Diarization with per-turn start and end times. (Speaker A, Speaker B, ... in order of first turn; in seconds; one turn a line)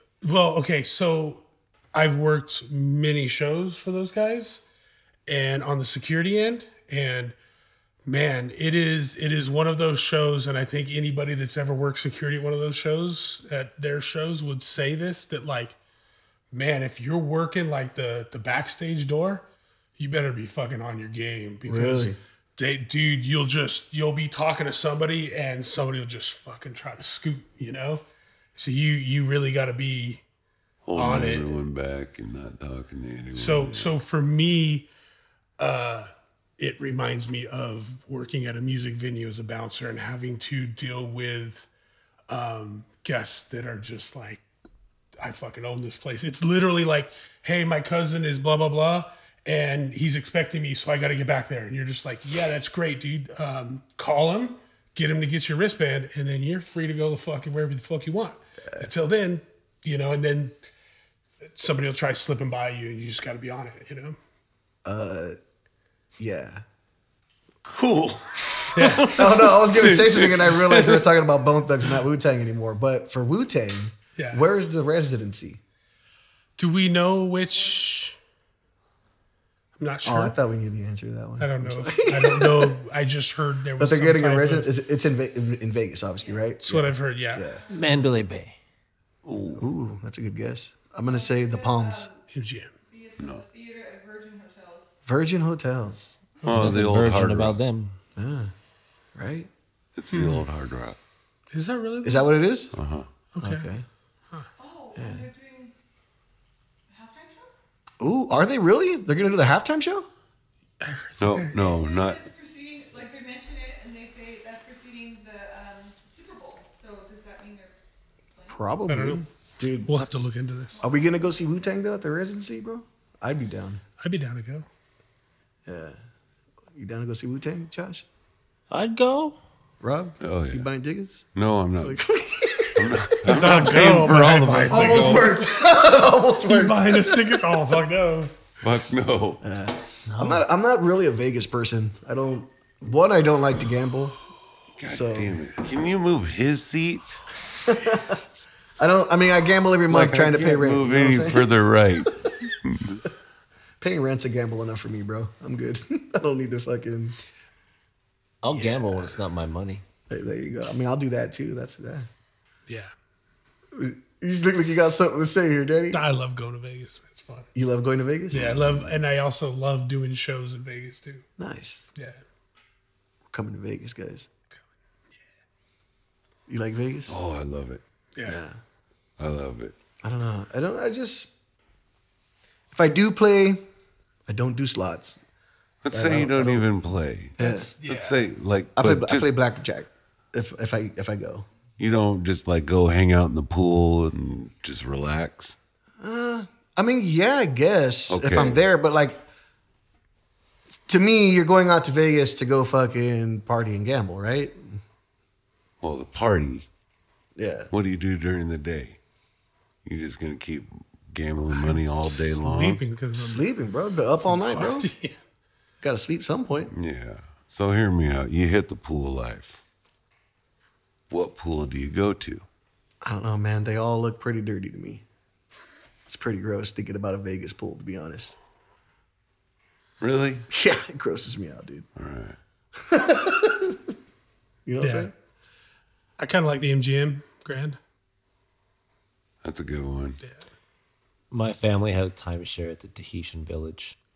Speaker A: 0.2-4.6
Speaker A: 5.3-7.3
Speaker A: 8.1-15.8
Speaker A: 16.5-19.4
Speaker A: 20.0-28.0
Speaker B: 21.6-22.2
Speaker A: 28.6-30.2
Speaker C: 30.9-33.9
Speaker A: 31.0-31.5
Speaker A: 33.4-34.9
Speaker A: 35.6-41.7
Speaker A: 42.3-44.4
Speaker A: 45.2-60.6
Speaker A: 61.4-64.2
Speaker B: 64.8-65.4
Speaker B: 66.2-66.6
Speaker C: 67.7-71.1
Speaker A: 68.7-69.3
Speaker B: 69.1-75.6
Speaker A: 74.2-74.5
Speaker A: 76.6-78.2
Speaker A: 79.8-80.4
Speaker B: 80.0-82.8
Speaker A: 81.4-84.7
Speaker B: 83.8-87.6
Speaker A: 86.6-87.5
Speaker D: 87.5-87.9
Speaker E: 87.7-88.6
Speaker C: 89.2-89.7
Speaker B: 89.6-92.1
Speaker D: 91.1-92.2
Speaker A: 92.3-92.7
Speaker D: 92.8-94.9
Speaker C: 93.2-93.4
Speaker B: 95.1-96.2
Speaker A: 96.4-96.8
Speaker C: 96.4-97.6
Speaker E: 96.5-98.0
Speaker B: 98.2-98.5
Speaker B: 99.2-99.5
Speaker C: 100.0-101.0
Speaker A: 100.1-100.5
Speaker A: 101.5-102.3
Speaker B: 102.0-102.7
Speaker C: 102.7-103.1
Speaker A: 103.3-103.7
Speaker B: 103.4-103.9
Speaker D: 104.6-105.7
Speaker B: 105.0-105.3
Speaker D: 106.9-107.5
Speaker B: 108.0-110.1
Speaker A: 110.8-111.5
Speaker C: 111.2-112.2
Speaker D: 111.6-117.8
Speaker D: 118.3-118.6
Speaker B: 118.5-119.9
Speaker A: 118.9-119.2
Speaker A: 119.8-120.8
Speaker D: 120.7-121.7
Speaker B: 120.8-123.8
Speaker A: 124.0-124.7
Speaker B: 125.7-126.0
Speaker B: 126.7-128.1
Speaker E: 128.7-129.4
Speaker B: 129.8-131.3
Speaker C: 130.2-130.7
Speaker C: 131.3-132.0
Speaker B: 131.8-133.4
Speaker C: 132.8-135.3
Speaker A: 133.2-135.4
Speaker B: 134.7-137.7
Speaker A: 136.5-138.3
Speaker C: 138.6-139.4
Speaker B: 139.4-144.2
Speaker E: 140.1-140.4
Speaker C: 144.8-147.1
Speaker B: 144.9-145.4
Speaker B: 147.7-148.2
Speaker B: 148.8-151.5
Speaker C: 149.9-153.0
Speaker B: 152.1-152.3
Speaker B: 153.8-157.2
Speaker E: 158.4-159.8
Speaker A: 158.5-159.1
Speaker B: 160.1-162.1
Speaker A: 162.7-162.9
Speaker B: 163.7-166.0
Speaker A: 165.9-167.5
Speaker B: 167.6-168.5
Speaker C: 168.3-169.0
Speaker A: 168.3-171.2
Speaker B: 171.4-171.9
Speaker B: 173.3-174.3
Speaker B: 176.5-177.2
Speaker C: 177.1-177.8
Speaker A: 178.2-178.4
Speaker B: 178.2-178.6
Speaker C: 179.2-179.7
Speaker B: 180.0-181.3
Speaker B: 182.7-183.6
Speaker B: 184.3-185.2
Speaker C: 185.8-189.3
Speaker B: 185.9-186.7
Speaker B: 187.4-187.7
Speaker A: 187.4-188.2
Speaker B: 188.8-191.5
Speaker C: 191.8-195.6
Speaker B: 196.0-199.2
Speaker C: 198.1-198.6
Speaker B: 200.9-204.8
Speaker C: 205.8-206.7
Speaker B: 207.4-207.7
Speaker C: 207.7-209.0
Speaker C: 209.8-212.8
Speaker A: 211.5-213.4
Speaker B: 213.2-214.9
Speaker A: 214.2-215.2
Speaker B: 215.8-216.7
Speaker C: 216.7-219.6
Speaker C: 221.1-222.4
Speaker B: 223.0-225.0
Speaker B: 226.1-228.4
Speaker C: 230.0-230.5
Speaker B: 230.5-231.9
Speaker C: 232.0-232.4
Speaker B: 232.8-233.9
Speaker B: 234.7-235.1
Speaker A: 234.8-235.1
Speaker A: 236.2-237.8
Speaker C: 239.4-240.2
Speaker E: 241.3-244.0